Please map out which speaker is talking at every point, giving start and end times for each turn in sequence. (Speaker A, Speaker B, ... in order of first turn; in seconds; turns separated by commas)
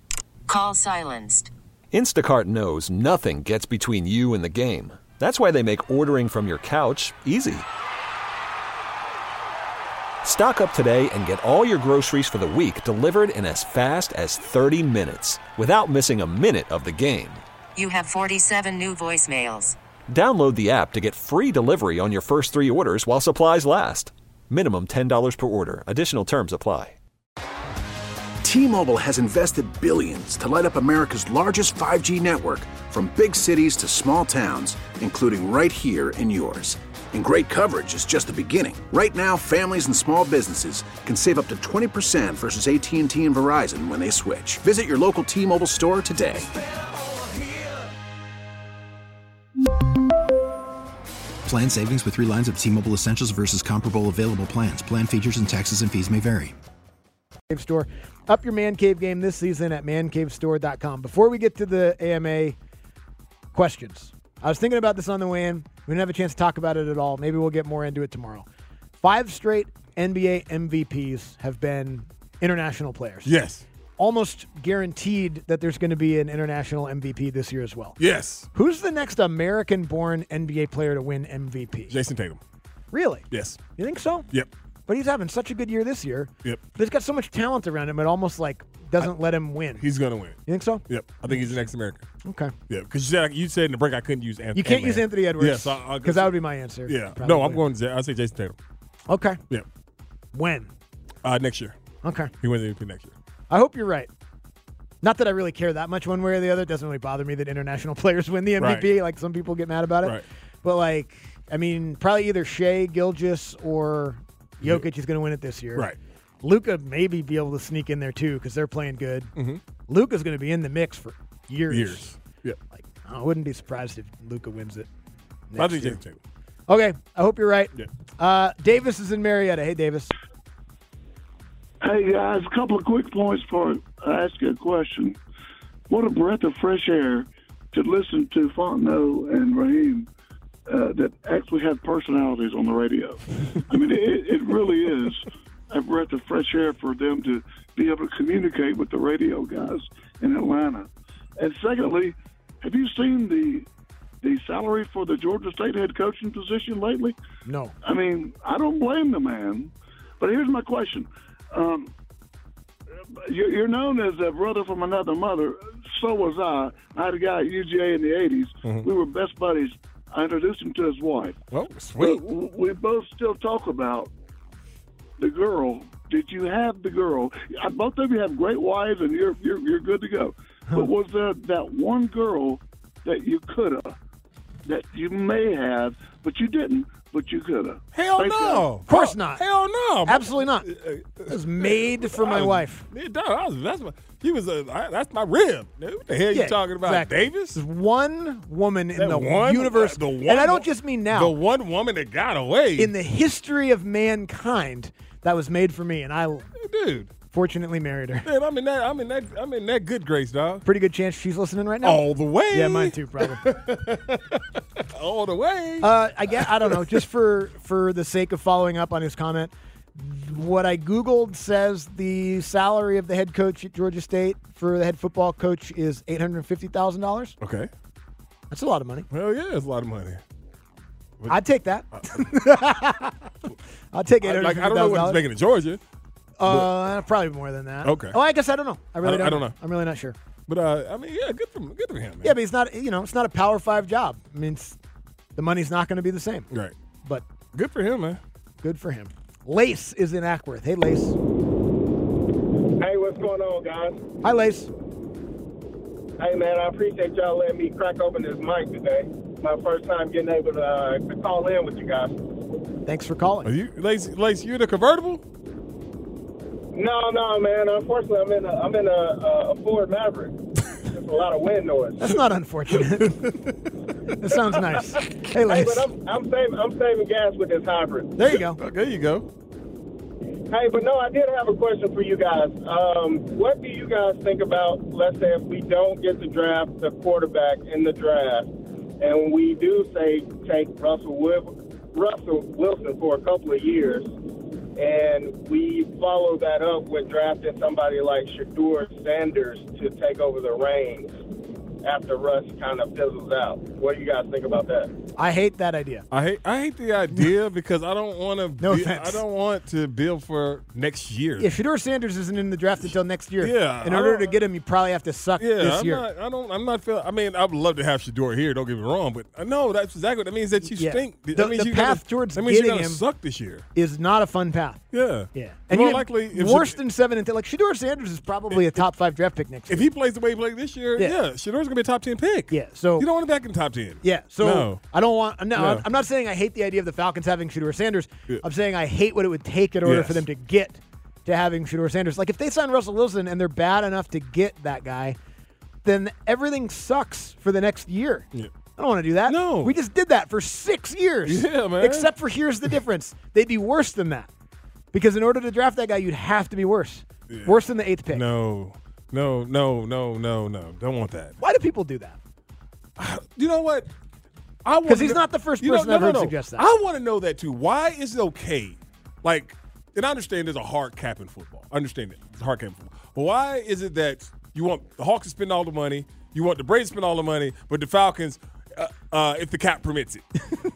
Speaker A: 0.5-1.5, Speaker B: 1.9-7.7, Speaker B: 10.2-17.4, Speaker A: 17.8-19.8, Speaker B: 20.1-27.0, Speaker C: 28.4-46.5, Speaker D: 51.5-56.5, Speaker E: 57.5-62.5, Speaker E: 63.5-68.5, Speaker E: 69.0-73.3, Speaker F: 73.2-73.6, Speaker E: 74.0-78.0, Speaker F: 78.0-78.5, Speaker E: 78.5-82.0, Speaker F: 81.9-82.4, Speaker E: 82.9-84.3, Speaker F: 83.3-83.6, Speaker E: 84.9-89.8, Speaker F: 89.8-92.0, Speaker E: 90.5-91.7, Speaker E: 92.2-92.5, Speaker F: 92.7-98.5, Speaker E: 94.5-97.6, Speaker E: 99.1-99.4, Speaker E: 100.3-100.7, Speaker F: 101.2-101.7, Speaker E: 102.0-102.3, Speaker F: 102.4-103.1, Speaker E: 103.5-104.1, Speaker E: 105.0-119.3, Speaker F: 108.6-108.9, Speaker F: 119.3-119.6, Speaker E: 119.9-122.1, Speaker F: 121.7-122.6, Speaker E: 122.7-124.9, Speaker E: 125.5-126.0, Speaker F: 125.6-126.2, Speaker E: 126.7-130.1, Speaker G: 131.8-135.2, Speaker G: 135.9-140.1, Speaker G: 140.7-153.7, Speaker G: 154.2-157.1, Speaker E: 157.4-157.7, Speaker G: 157.8-161.9, Speaker G: 163.2-171.4, Speaker F: 171.5-172.2, Speaker G: 172.0-174.1, Speaker G: 175.2-183.9, Speaker G: 184.6-188.7, Speaker F: 187.9-197.6, Speaker E: 188.8-189.4, Speaker E: 190.1-190.7, Speaker E: 191.3-192.8, Speaker E: 196.3-201.3, Speaker F: 198.9-202.9, Speaker E: 202.8-206.5, Speaker F: 206.6-207.1, Speaker E: 207.3-208.3, Speaker F: 208.2-210.6, Speaker E: 210.6-213.4, Speaker F: 211.8-216.8, Speaker E: 215.8-227.3, Speaker F: 227.4-227.7, Speaker E: 228.5-229.1, Speaker F: 229.1-230.2, Speaker E: 231.3-233.1, Speaker E: 233.9-235.2, Speaker F: 234.2-235.8, Speaker E: 236.4-240.2, Speaker F: 236.4-236.7, Speaker F: 237.8-238.2, Speaker F: 239.0-239.5, Speaker F: 240.5-242.3, Speaker E: 242.2-244.8, Speaker E: 245.3-246.5, Speaker F: 247.5-248.2, Speaker E: 248.6-251.2, Speaker H: 252.8-254.0, Speaker E: 254.2-254.7, Speaker H: 256.2-262.2, Speaker E: 262.8-263.5, Speaker F: 263.4-265.2, Speaker H: 266.7-272.0, Speaker E: 272.0-273.5, Speaker E: 274.1-275.9, Speaker H: 275.5-278.1, Speaker E: 278.1-278.6, Speaker F: 278.3-279.3, Speaker H: 280.5-294.1, Speaker H: 294.8-301.2, Speaker H: 301.8-304.9, Speaker E: 305.2-306.1, Speaker F: 306.1-311.5, Speaker E: 308.6-309.2, Speaker E: 311.4-316.0, Speaker F: 313.4-314.4, Speaker F: 315.4-323.6, Speaker E: 320.7-323.0, Speaker E: 323.7-324.8, Speaker F: 324.9-326.8, Speaker E: 325.3-329.9, Speaker F: 329.7-334.8, Speaker E: 332.5-333.1, Speaker E: 334.0-345.2, Speaker F: 335.5-335.9, Speaker F: 339.8-340.2, Speaker E: 345.8-354.3, Speaker F: 349.3-349.8, Speaker F: 351.2-352.1, Speaker E: 354.9-358.2, Speaker F: 357.3-357.6, Speaker F: 358.1-361.4, Speaker E: 361.4-362.2, Speaker F: 363.0-363.9, Speaker F: 364.6-380.3, Speaker E: 364.9-366.7